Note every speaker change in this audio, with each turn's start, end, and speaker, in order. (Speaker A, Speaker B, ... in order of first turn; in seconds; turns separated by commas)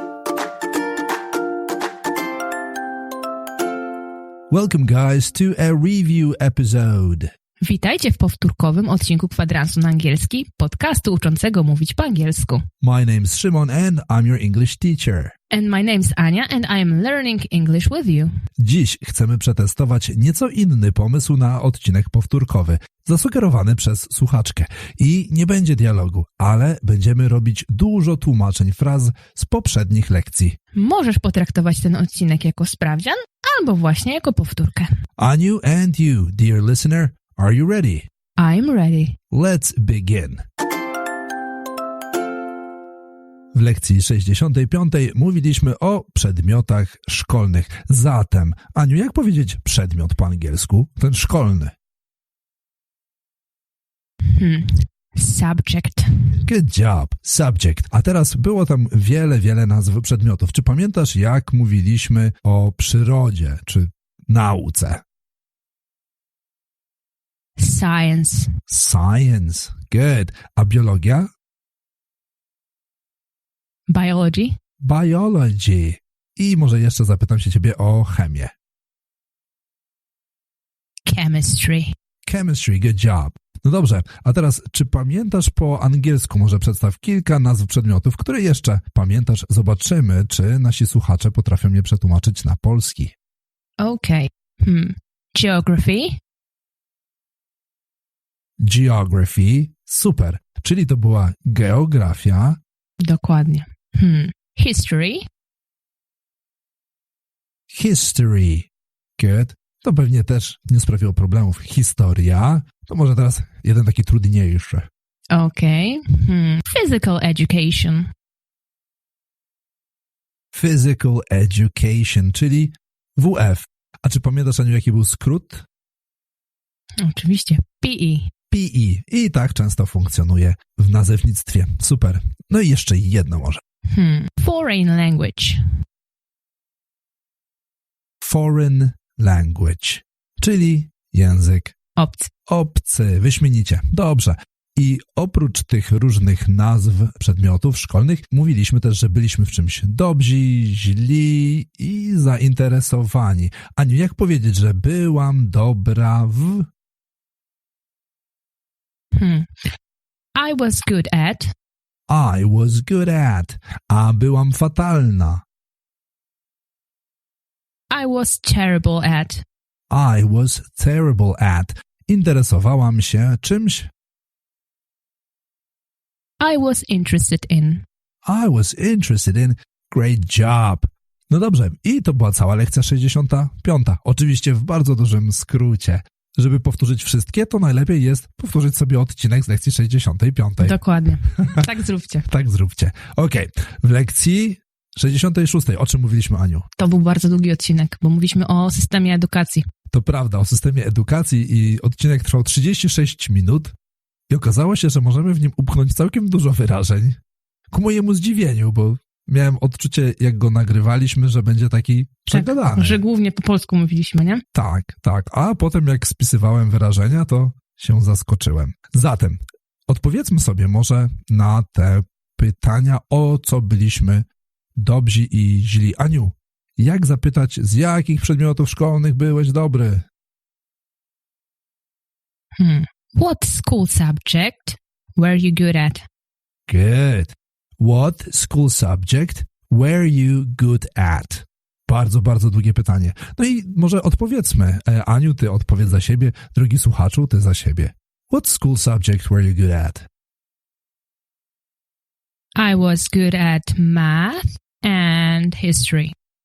Speaker A: 4.5-7.3, Speaker B: 7.6-12.6, Speaker A: 12.8-15.3, Speaker B: 15.5-18.3, Speaker A: 18.6-30.6, Speaker B: 30.7-34.9, Speaker A: 35.2-38.1, Speaker B: 38.4-39.2, Speaker A: 39.3-40.4, Speaker A: 43.5-51.7, Speaker B: 54.3-56.4, Speaker A: 56.4-65.0, Speaker B: 67.6-68.5, Speaker A: 68.7-71.3, Speaker B: 73.9-74.6, Speaker A: 74.8-78.5, Speaker B: 81.1-81.9, Speaker A: 82.3-93.1, Speaker B: 93.8-96.2, Speaker A: 98.6-102.6, Speaker B: 103.0-105.3, Speaker A: 107.7-114.9, Speaker B: 115.3-118.1, Speaker A: 120.5-125.7, Speaker B: 127.0-128.3, Speaker A: 128.5-133.6, Speaker B: 133.9-135.6, Speaker A: 138.2-141.8, Speaker B: 142.0-142.3, Speaker A: 142.5-156.7, Speaker B: 159.2-159.5, Speaker B: 160.3-161.5, Speaker A: 162.1-165.4, Speaker B: 167.9-169.4, Speaker A: 169.9-173.9, Speaker B: 176.4-177.8, Speaker A: 178.2-190.8, Speaker B: 190.6-192.3, Speaker A: 192.3-196.7, Speaker B: 196.8-199.7, Speaker A: 199.9-203.7, Speaker A: 204.3-207.2, Speaker A: 207.7-213.0, Speaker B: 212.3-214.4, Speaker A: 214.5-230.1, Speaker B: 232.6-236.1, Speaker A: 236.7-250.1, Speaker B: 252.6-256.1